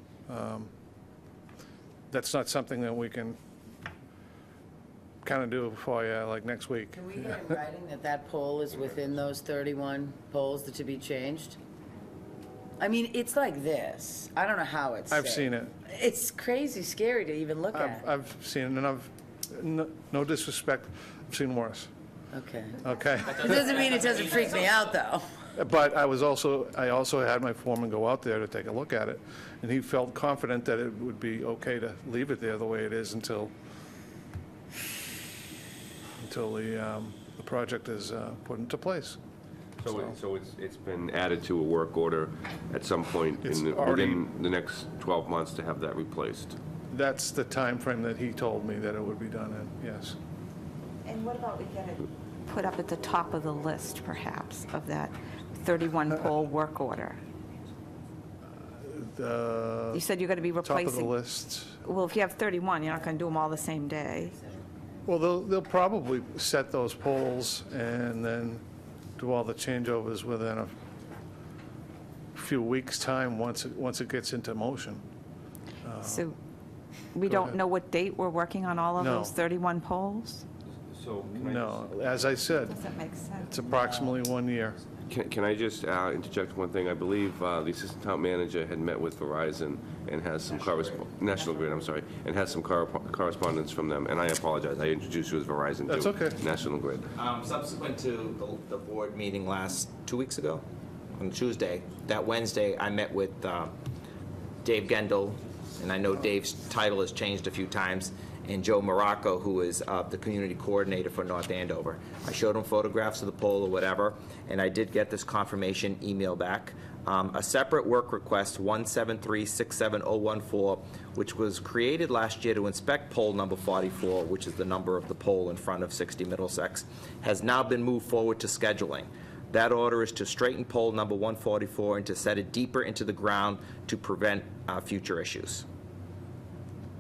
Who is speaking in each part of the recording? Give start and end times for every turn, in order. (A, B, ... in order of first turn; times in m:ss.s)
0:00.3-0:00.7 A
0:02.1-0:03.4 A
0:05.2-0:07.1 A
0:06.9-0:11.6 B
0:08.7-0:09.2 C
0:12.8-0:18.1 B
0:15.1-0:15.7 A
0:17.7-0:21.9 A
0:22.3-0:25.3 B
0:22.8-0:23.6 A
0:25.6-0:33.5 A
0:36.2-0:39.2 A
0:39.8-0:46.6 C
0:39.9-0:40.1 A
0:43.4-0:44.2 A
0:46.9-0:50.2 A
0:51.0-0:57.2 D
0:58.6-1:00.0 A
0:59.9-1:01.1 D
1:00.6-1:01.8 A
1:01.8-1:04.4 D
1:04.4-1:04.7 B
1:05.1-1:08.6 A
1:09.2-1:10.8 A
1:12.4-1:15.0 A
1:15.8-1:16.3 A
1:16.0-1:16.4 D
1:17.1-1:20.4 D
1:17.3-1:17.6 A
1:19.0-1:19.3 A
1:20.8-1:22.2 C
1:21.4-1:22.8 A
1:22.7-1:23.7 D
1:23.4-1:24.8 A
1:25.1-1:37.1 C
1:35.9-1:36.4 A
1:37.2-1:40.6 E
1:41.2-1:43.7 E
1:44.6-2:15.6 E